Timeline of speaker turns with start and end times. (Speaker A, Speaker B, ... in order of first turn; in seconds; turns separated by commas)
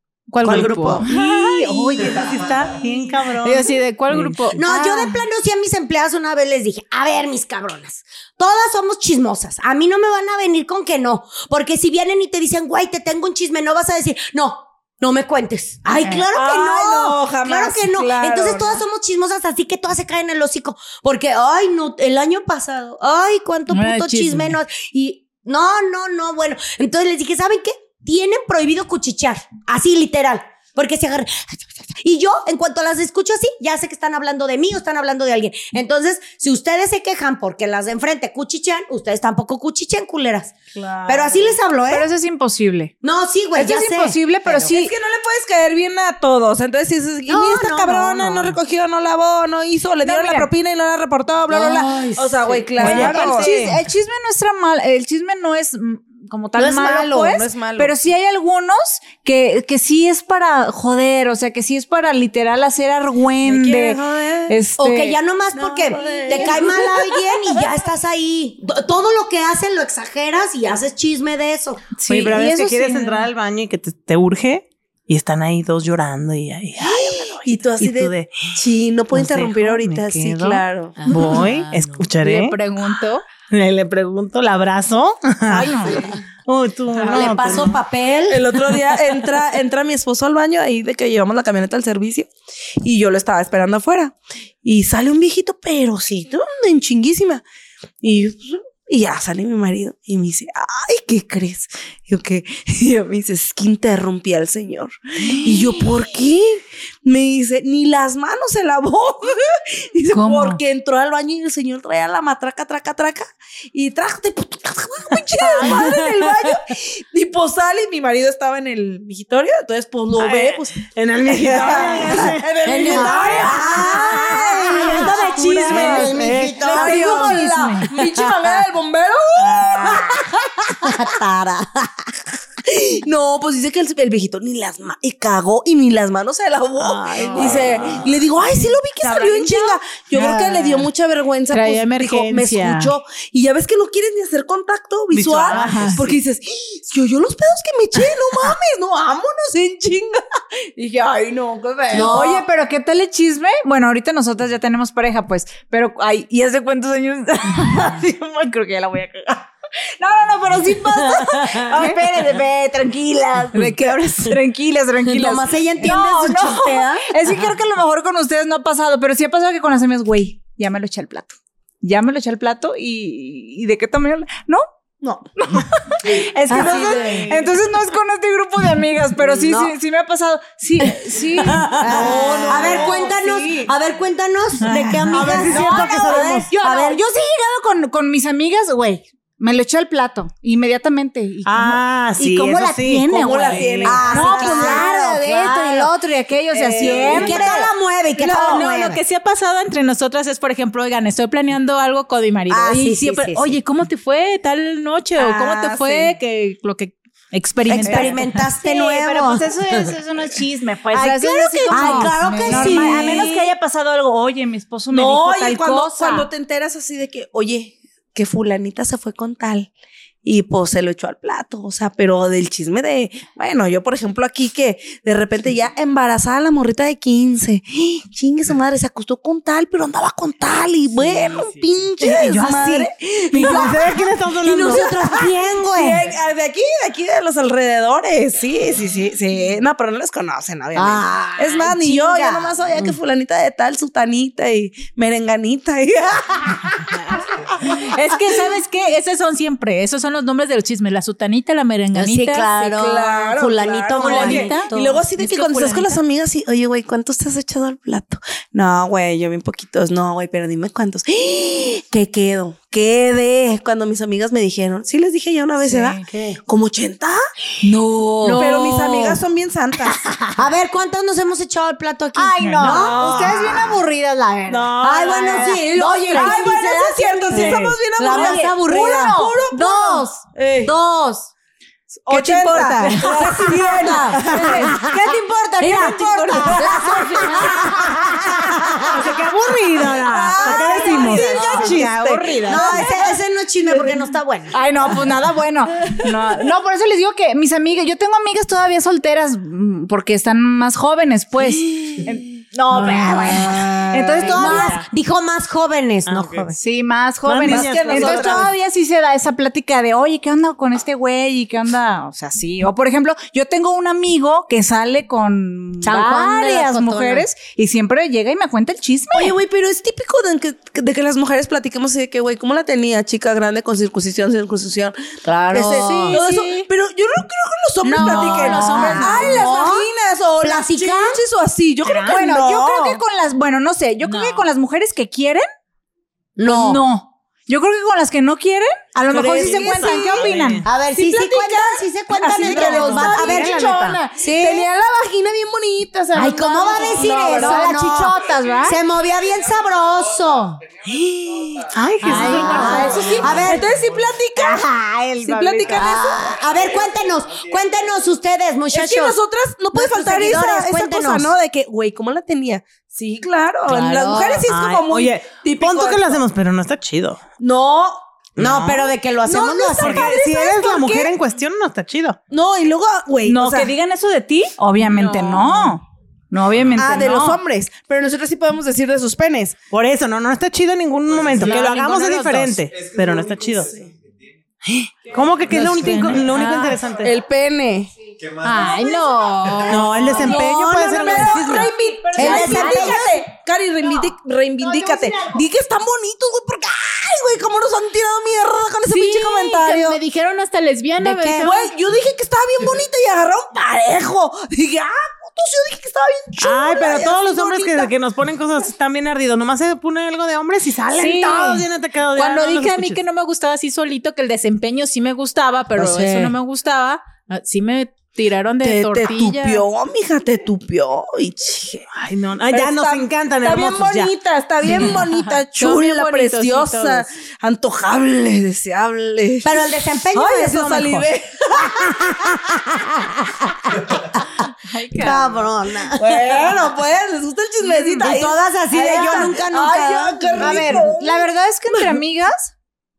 Speaker A: 0.3-1.1, Speaker B: 0.4-1.1, Speaker C: 0.7-4.4, Speaker D: 1.1-2.3, Speaker A: 3.4-5.1, Speaker B: 4.5-40.5, Speaker E: 16.3-18.8, Speaker A: 23.7-24.6, Speaker E: 40.8-41.6, Speaker B: 41.1-42.1, Speaker D: 41.9-42.9, Speaker B: 43.0-44.8, Speaker D: 43.5-44.9, Speaker E: 44.7-53.8, Speaker B: 47.3-48.5, Speaker D: 50.0-50.5, Speaker B: 51.5-53.5, Speaker D: 52.8-65.2, Speaker C: 52.8-53.5, Speaker E: 56.6-57.9, Speaker E: 63.4-64.6, Speaker B: 64.8-71.8, Speaker E: 65.5-67.7, Speaker D: 72.0-73.3, Speaker C: 72.1-78.5, Speaker E: 76.8-81.0, Speaker C: 79.1-82.6, Speaker A: 81.1-83.2, Speaker C: 83.5-87.8, Speaker A: 85.5-86.1, Speaker B: 87.1-88.5, Speaker E: 88.3-92.3, Speaker E: 92.8-97.4, Speaker E: 98.0-130.9, Speaker A: 110.1-110.6, Speaker B: 115.6-116.4, Speaker C: 120.2-124.9, Speaker B: 121.9-127.3, Speaker C: 125.6-127.4, Speaker D: 125.9-127.9, Speaker C: 129.4-130.2, Speaker B: 129.8-130.2, Speaker B: 130.8-132.1, Speaker E: 132.6-152.1, Speaker C: 136.8-138.1, Speaker C: 139.0-139.8, Speaker A: 140.1-140.9, Speaker A: 141.5-142.9, Speaker C: 145.1-146.2, Speaker A: 145.5-146.0, Speaker B: 151.9-152.4, Speaker D: 152.0-159.5, Speaker D: 160.0-174.6, Speaker B: 161.1-162.0, Speaker B: 165.0-167.1, Speaker D: 175.4-183.4, Speaker F: 176.0-176.3, Speaker B: 176.5-177.3, Speaker E: 176.5-177.4, Speaker B: 179.2-179.8, Speaker B: 181.7-187.0, Speaker E: 181.8-183.7, Speaker C: 184.7-186.5, Speaker D: 185.1-197.7, Speaker C: 191.4-194.1, Speaker E: 193.1-194.9, Speaker B: 193.8-195.9, Speaker E: 196.5-197.6, Speaker B: 196.8-199.0, Speaker A: 198.2-208.2, Speaker D: 198.3-198.6, Speaker B: 202.5-203.6, Speaker B: 205.2-206.1, Speaker B: 207.7-209.9, Speaker D: 207.8-216.3, Speaker A: 210.9-213.2, Speaker B: 211.7-213.4, Speaker E: 212.6-213.3, Speaker E: 214.9-219.7, Speaker E: 220.2-247.8, Speaker C: 231.0-235.0, Speaker B: 234.4-236.1, Speaker B: 240.7-242.9, Speaker A: 247.6-252.5, Speaker B: 251.9-255.0, Speaker E: 252.6-267.2, Speaker A: 254.0-256.0, Speaker D: 265.6-266.1, Speaker D: 267.6-269.1, Speaker A: 268.2-268.6, Speaker B: 268.2-268.5, Speaker E: 268.2-270.1, Speaker B: 270.3-273.4, Speaker D: 272.2-276.4, Speaker E: 272.6-273.8, Speaker E: 274.5-280.8, Speaker B: 274.8-279.2, Speaker D: 277.3-281.3, Speaker E: 282.1-284.8, Speaker D: 282.1-288.2, Speaker B: 282.8-289.1, Speaker E: 285.6-287.7, Speaker C: 288.8-292.3, Speaker E: 289.8-293.1, Speaker D: 290.3-292.9, Speaker B: 291.3-291.8, Speaker B: 292.4-294.6, Speaker D: 294.5-304.8, Speaker B: 302.9-306.6, Speaker A: 303.1-303.6, Speaker C: 306.1-306.5, Speaker D: 306.6-319.3, Speaker C: 307.2-308.5, Speaker E: 307.4-308.5, Speaker B: 315.8-317.3, Speaker E: 319.1-324.9, Speaker B: 325.2-326.2, Speaker E: 325.5-332.2, Speaker D: 325.8-326.1, Speaker A: 325.8-326.7, Speaker A: 327.8-329.5, Speaker B: 328.0-329.9, Speaker D: 328.1-329.3, Speaker B: 330.4-331.2, Speaker C: 331.8-333.0, Speaker D: 332.1-335.5, Speaker A: 334.0-334.5, Speaker B: 336.4-336.8, Speaker D: 336.4-340.6, Speaker E: 339.1-340.3, Speaker C: 339.4-340.7, Speaker B: 340.6-344.7, Speaker E: 340.9-343.7, Speaker A: 342.4-344.2, Speaker D: 342.4-344.0, Speaker C: 343.2-344.0, Speaker E: 344.2-347.7, Speaker B: 346.1-350.6, Speaker D: 347.0-348.8, Speaker A: 347.4-347.7, Speaker F: 348.4-354.2, Speaker C: 350.9-353.1, Speaker A: 352.0-353.5, Speaker D: 352.0-353.4, Speaker E: 352.2-354.7, Speaker B: 352.5-353.7, Speaker D: 354.6-355.6, Speaker E: 355.2-356.4, Speaker C: 355.4-355.6, Speaker B: 355.6-359.2, Speaker F: 355.6-358.2, Speaker E: 358.7-366.2, Speaker B: 359.7-361.4, Speaker A: 363.7-364.3, Speaker B: 363.9-364.4, Speaker C: 364.4-367.2, Speaker E: 367.4-368.0, Speaker B: 368.4-370.1, Speaker C: 368.4-368.9, Speaker E: 369.2-371.1, Speaker C: 369.8-372.2, Speaker E: 372.3-373.7, Speaker D: 373.2-377.4, Speaker A: 374.8-375.8, Speaker F: 376.6-376.8, Speaker E: 376.8-379.6, Speaker C: 379.7-383.7, Speaker F: 381.0-384.4, Speaker A: 381.4-382.6, Speaker C: 384.6-387.2, Speaker F: 385.1-387.2, Speaker D: 385.4-386.6, Speaker A: 385.8-386.9, Speaker E: 387.0-387.9, Speaker F: 388.1-390.1, Speaker A: 388.4-390.5, Speaker D: 388.4-393.2, Speaker C: 389.7-391.7, Speaker E: 390.0-400.0, Speaker A: 392.1-393.1, Speaker B: 392.2-393.1, Speaker D: 394.6-395.4, Speaker A: 398.9-401.7, Speaker B: 401.0-401.5, Speaker E: 401.4-407.9, Speaker C: 406.4-413.0, Speaker A: 410.9-419.6, Speaker B: 415.8-416.4, Speaker E: 418.6-421.9, Speaker C: 421.9-424.1, Speaker E: 422.5-429.6, Speaker A: 424.6-427.1, Speaker B: 429.4-431.1, Speaker E: 430.1-432.1, Speaker B: 431.6-434.3, Speaker A: 434.7-435.4, Speaker B: 434.9-436.6, Speaker E: 436.0-442.0, Speaker D: 437.6-438.1, Speaker B: 438.0-440.9, Speaker D: 440.4-442.5